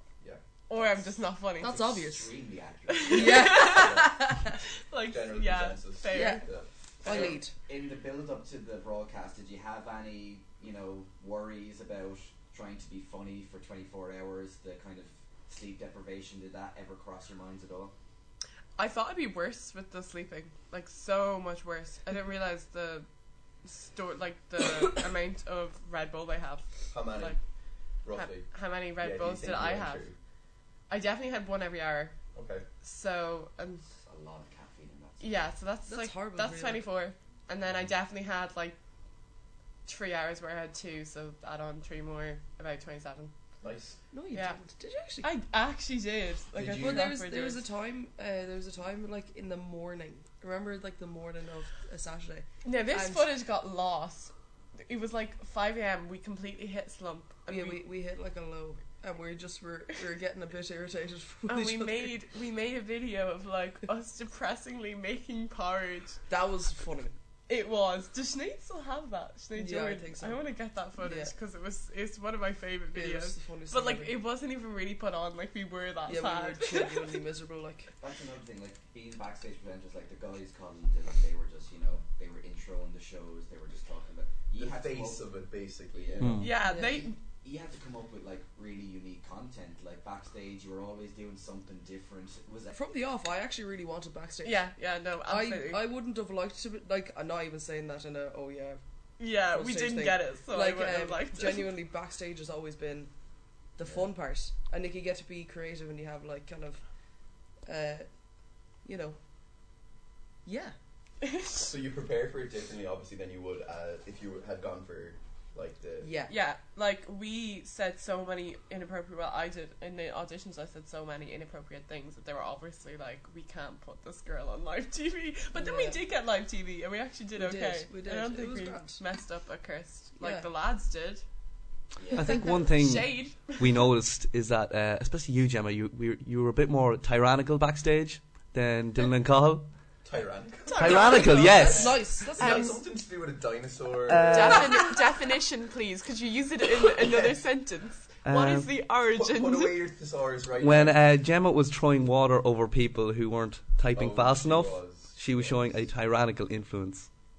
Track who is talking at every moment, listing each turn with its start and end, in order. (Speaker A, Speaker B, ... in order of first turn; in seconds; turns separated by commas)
Speaker A: 0.7-1.8, Speaker B: 1.6-2.3, Speaker C: 1.6-3.6, Speaker A: 2.9-4.1, Speaker B: 3.1-4.6, Speaker D: 3.6-4.2, Speaker A: 4.8-6.5, Speaker D: 5.0-6.7, Speaker B: 6.1-6.4, Speaker C: 7.0-17.9, Speaker B: 7.0-7.5, Speaker A: 18.8-23.1, Speaker A: 23.6-27.4, Speaker D: 26.9-27.4, Speaker D: 28.0-30.2, Speaker A: 28.1-30.1, Speaker A: 30.9-32.1, Speaker D: 32.4-32.7, Speaker A: 32.8-33.8, Speaker C: 34.0-35.5, Speaker A: 35.2-38.8, Speaker B: 35.9-36.9, Speaker A: 39.9-43.3, Speaker D: 43.6-44.0, Speaker B: 44.1-45.3, Speaker A: 44.3-44.6, Speaker A: 45.2-47.6, Speaker D: 46.5-47.1, Speaker B: 46.7-53.3, Speaker A: 52.6-57.8, Speaker B: 57.5-62.1, Speaker A: 61.5-66.2, Speaker B: 66.3-67.2, Speaker A: 67.5-77.2, Speaker B: 69.5-70.4, Speaker B: 71.0-71.3, Speaker B: 72.9-74.2, Speaker B: 76.1-77.9, Speaker C: 78.0-85.2, Speaker D: 84.6-86.5, Speaker C: 85.9-86.4, Speaker E: 86.2-86.5, Speaker A: 86.4-87.2, Speaker B: 86.6-87.1, Speaker C: 87.4-92.8, Speaker B: 92.7-94.7, Speaker A: 94.4-95.9, Speaker B: 95.3-98.8, Speaker A: 99.2-101.7, Speaker B: 99.5-103.1, Speaker B: 103.8-106.8, Speaker B: 107.7-108.1, Speaker B: 108.8-109.2, Speaker B: 110.5-110.8, Speaker A: 111.2-111.7, Speaker D: 111.6-116.1, Speaker B: 116.0-116.3, Speaker A: 116.3-131.2, Speaker B: 125.5-126.0, Speaker B: 127.4-129.0, Speaker B: 130.2-130.4, Speaker C: 132.0-132.4, Speaker E: 132.1-139.7, Speaker A: 132.2-133.7, Speaker D: 140.0-144.7, Speaker A: 140.7-142.8, Speaker E: 140.8-142.0, Speaker B: 141.4-142.8, Speaker C: 141.7-141.9, Speaker E: 144.1-144.9, Speaker A: 144.3-149.8, Speaker E: 148.2-148.7, Speaker D: 149.2-151.2, Speaker E: 150.6-157.1, Speaker D: 153.9-155.8